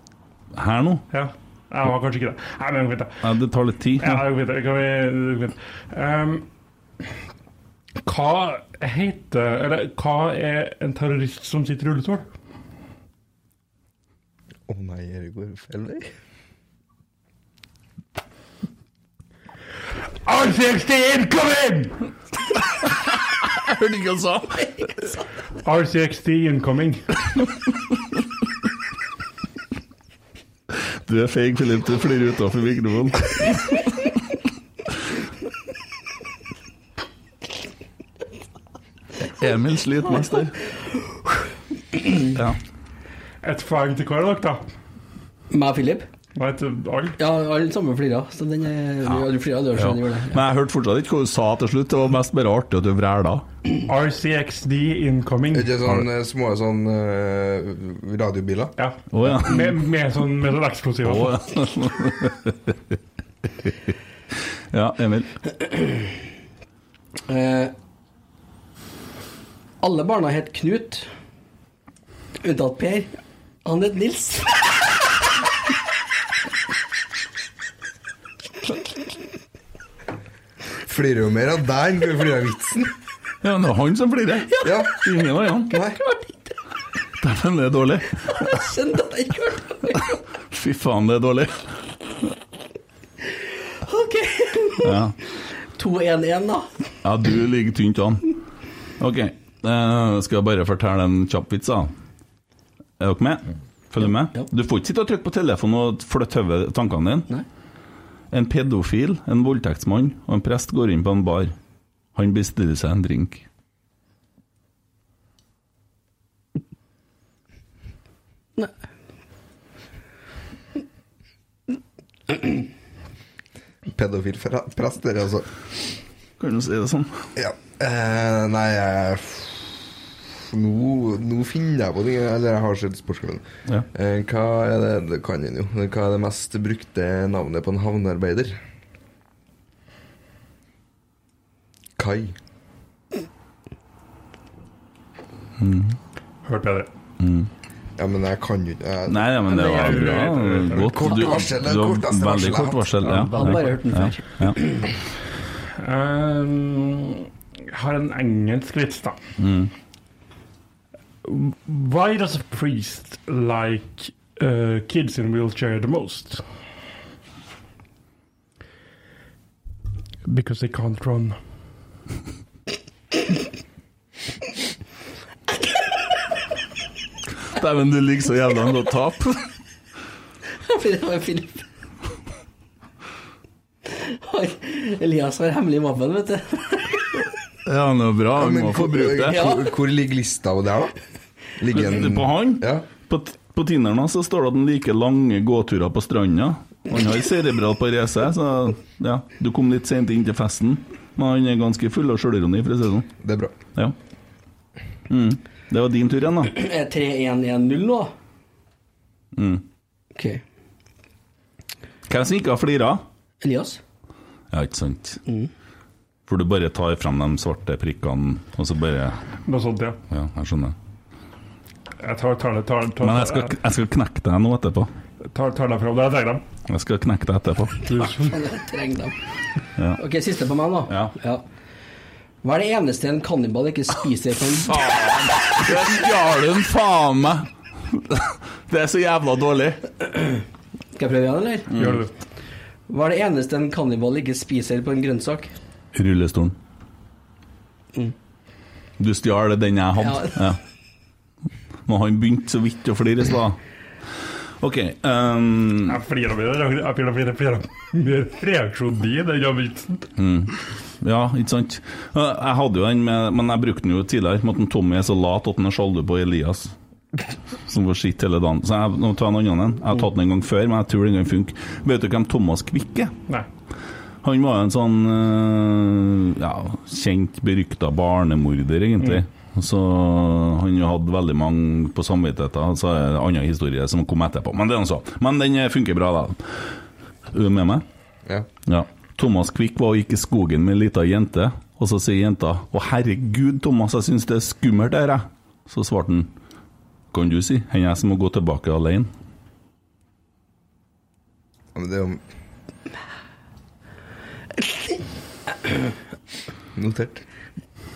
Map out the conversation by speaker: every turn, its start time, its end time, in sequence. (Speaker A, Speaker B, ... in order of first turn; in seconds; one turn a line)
Speaker A: 0.5-1.1
Speaker B: 1.1-3.2
Speaker A: 3.2-4.2
Speaker B: 4.0-6.5
Speaker B: 8.0-12.3
Speaker C: 14.7-16.1
Speaker B: 20.2-22.0
Speaker A: 22.8-24.9
Speaker B: 25.6-27.0
Speaker A: 31.1-33.9
Speaker A: 39.4-40.6
Speaker A: 42.2-42.6
Speaker B: 43.4-44.6
Speaker D: 45.5-46.0
Speaker B: 46.3-47.1
Speaker D: 47.2-50.4
Speaker A: 49.7-53.5
Speaker B: 53.9-55.8
Speaker C: 55.5-58.7
Speaker B: 58.8-61.4
Speaker A: 59.1-59.7
Speaker A: 61.0-62.9
Speaker A: 64.7-65.3
Speaker D: 65.7-66.0
Speaker D: 67.3-67.7
Speaker D: 69.8-71.1
Speaker D: 72.4-73.1
Speaker D: 73.6-74.9
Speaker C: 80.8-82.9
Speaker A: 83.4-85.7
Speaker C: 84.6-85.0
Speaker C: 85.7-86.0
Speaker D: 86.0-86.3
Speaker A: 87.2-88.6
Speaker D: 88.3-90.1
Speaker A: 90.5-91.7
Speaker D: 93.8-95.0
Speaker A: 94.8-95.1
Speaker D: 95.6-96.7
Speaker A: 97.0-98.2
Speaker A: 99.0-101.9
Speaker A: 103.0-107.3
Speaker A: 108.3-111.5
Speaker A: 112.1-113.4
Speaker C: 123.9-125.5
Speaker A: 126.4-127.2
Speaker C: 127.4-129.9
Speaker C: 130.4-138.6
Speaker C: 142.0-142.3
Speaker A: 145.6-146.0
Speaker B: 146.4-146.9
Speaker A: 147.2-147.5
Speaker C: 148.0-149.4
Speaker A: 149.1-154.6
Speaker B: 149.5-151.2
Speaker C: 150.8-153.4
Speaker D: 153.3-154.9
Speaker B: 155.8-159.2
Speaker A: 159.4-159.7
Speaker B: 161.2-166.4
Speaker B: 170.2-171.4
Speaker A: 177.4-179.4
Speaker D: 180.6-181.6
Speaker D: 183.9-187.1
Speaker A: 187.6-189.5
Speaker C: 188.3-190.9
Speaker D: 189.3-189.7
Speaker C: 191.6-192.8
Speaker A: 191.7-203.1
Speaker C: 203.2-203.5
Speaker A: 205.1-206.5
Speaker D: 206.5-208.1
Speaker A: 209.3-209.6
Speaker D: 210.1-210.4
Speaker A: 212.1-213.0
Speaker D: 213.4-213.8
Speaker A: 214.5-215.2
Speaker A: 216.3-219.2
Speaker B: 219.4-220.0
Speaker A: 220.1-220.7
Speaker B: 222.0-223.5
Speaker A: 223.0-224.9
Speaker B: 225.3-226.4
Speaker A: 226.7-227.8
Speaker B: 227.8-228.3
Speaker D: 228.0-229.1
Speaker D: 229.9-231.4
Speaker A: 230.9-231.1
Speaker D: 232.4-234.8
Speaker A: 234.6-239.8
Speaker D: 240.9-241.7
Speaker A: 241.7-242.1
Speaker B: 241.8-242.1
Speaker D: 242.9-245.5
Speaker A: 245.9-246.6
Speaker A: 249.0-250.6
Speaker D: 250.0-250.4
Speaker A: 251.8-253.6
Speaker A: 254.6-256.0
Speaker B: 255.8-260.1
Speaker A: 260.2-266.7
Speaker A: 267.6-273.1
Speaker A: 274.2-286.6
Speaker A: 287.3-287.8
Speaker A: 288.6-296.3
Speaker A: 297.1-299.1
Speaker C: 301.7-302.2
Speaker C: 306.7-307.2